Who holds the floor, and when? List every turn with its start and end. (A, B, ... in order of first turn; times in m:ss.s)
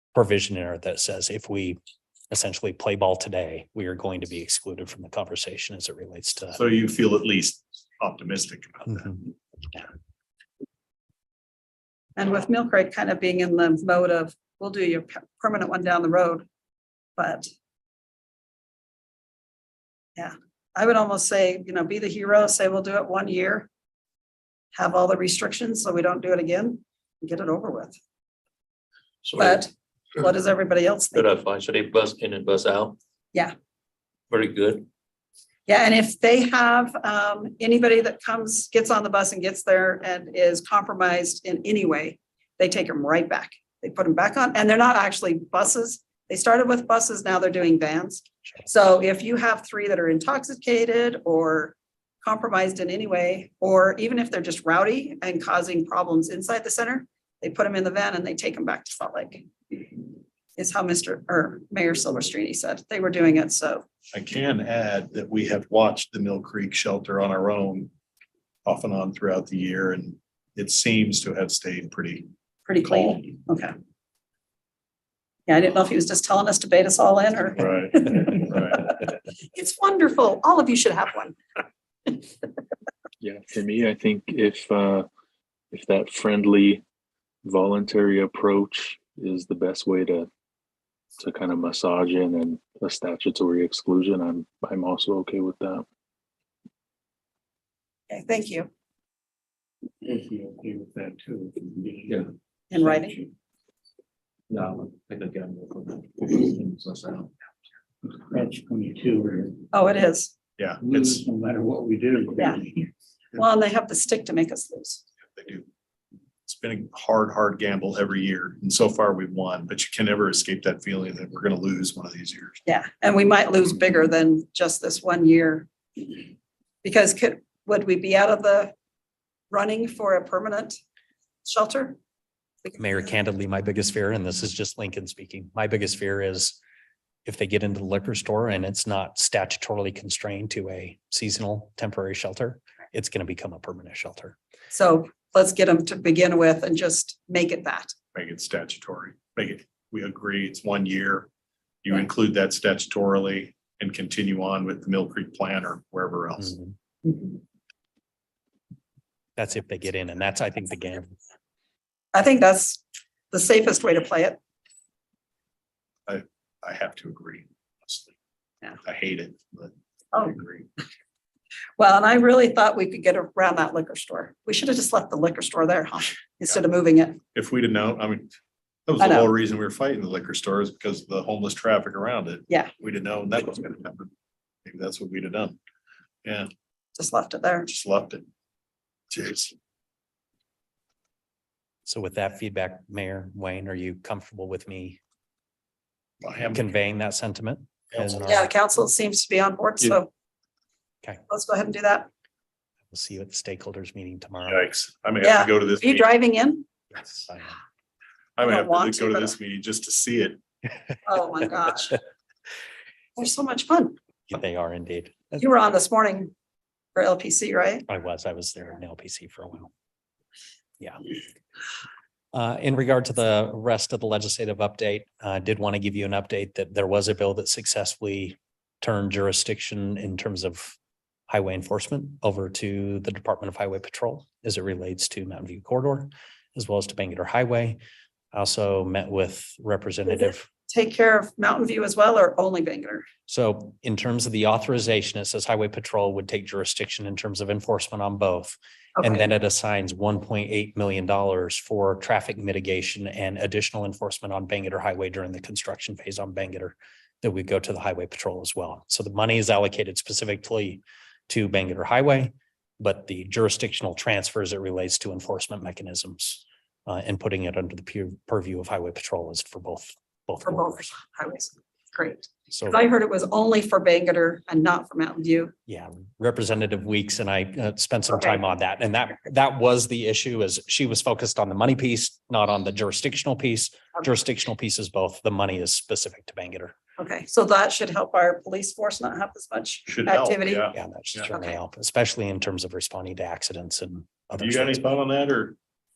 0:00.1-0:01.8 A
0:02.3-0:06.6 A
0:06.5-0:09.3 B
0:12.2-0:16.4 C
0:17.2-0:17.5 C
0:20.2-0:23.7 C
0:24.7-0:28.0 C
0:29.2-0:29.6 D
0:29.4-0:31.2 C
0:31.1-0:33.0 D
0:34.3-0:34.9 D
0:35.7-1:03.8 C
1:04.1-1:07.9 B
1:08.6-1:12.3 B
1:12.7-1:13.7 C
1:12.8-1:13.3 B
1:15.5-1:18.9 C
1:17.6-1:18.9 B
1:19.5-1:21.4 C
1:22.1-1:22.3 C
1:23.2-1:25.1 E
1:25.7-1:26.8 E
1:27.4-1:30.3 E
1:31.2-1:35.8 E
1:38.1-1:38.7 C
1:40.0-1:43.1 F
1:42.7-1:43.2 C
1:44.5-1:47.3 D
1:48.1-1:49.6 F
1:49.7-1:50.3 C
1:50.6-1:51.2 B
1:50.8-1:52.9 F
1:53.3-1:55.0 C
1:55.3-1:55.7 B
1:56.4-2:02.6 B
2:02.6-2:06.3 C
2:06.8-2:08.7 C
2:09.5-2:10.8 C
2:11.4-2:12.0 C
2:12.8-2:16.6 A
2:17.2-2:24.4 A
2:24.7-2:27.9 C
2:28.1-2:31.3 B
2:31.8-2:36.6 B
2:36.4-2:36.7 A
2:39.4-2:41.1 A
2:42.1-2:44.4 C
2:46.1-2:48.1 B
2:48.8-2:50.7 B
2:51.8-2:57.2 C
2:57.3-2:58.3 B
2:58.9-3:04.1 B
2:59.0-2:59.3 C
3:04.6-3:05.6 B
3:06.2-3:06.5 B
3:07.0-3:07.7 C
3:07.7-3:08.2 B
3:09.1-3:09.5 B
3:11.8-3:15.0 A
3:16.2-3:16.6 B
3:16.5-3:18.5 A
3:17.9-3:18.2 B
3:18.2-3:20.1 C
3:21.3-3:22.1 C
3:22.9-3:24.7 A
3:24.4-3:26.1 B
3:25.2-3:26.6 C
3:27.0-3:27.5 A
3:28.4-3:30.4 B
3:28.4-3:29.4 C
3:31.0-3:32.0 C
3:33.2-3:33.9 C
3:34.3-3:35.4 A
3:35.4-3:36.3 C
3:37.0-3:37.8 C
3:37.9-3:39.7 A
3:42.3-3:50.8 A
3:51.3-3:57.8 A
3:58.3-4:00.5 A
4:00.1-4:03.1 C
4:03.3-4:30.9 A
4:09.0-4:09.3 C
4:30.4-4:35.5 C
4:32.5-4:32.8 A
4:35.7-4:46.8 A
4:38.1-4:38.4 C
4:47.0-4:50.7 C
4:49.9-4:51.3 B
4:50.7-4:54.8 A
4:51.3-4:51.6 C
4:54.4-4:55.6 B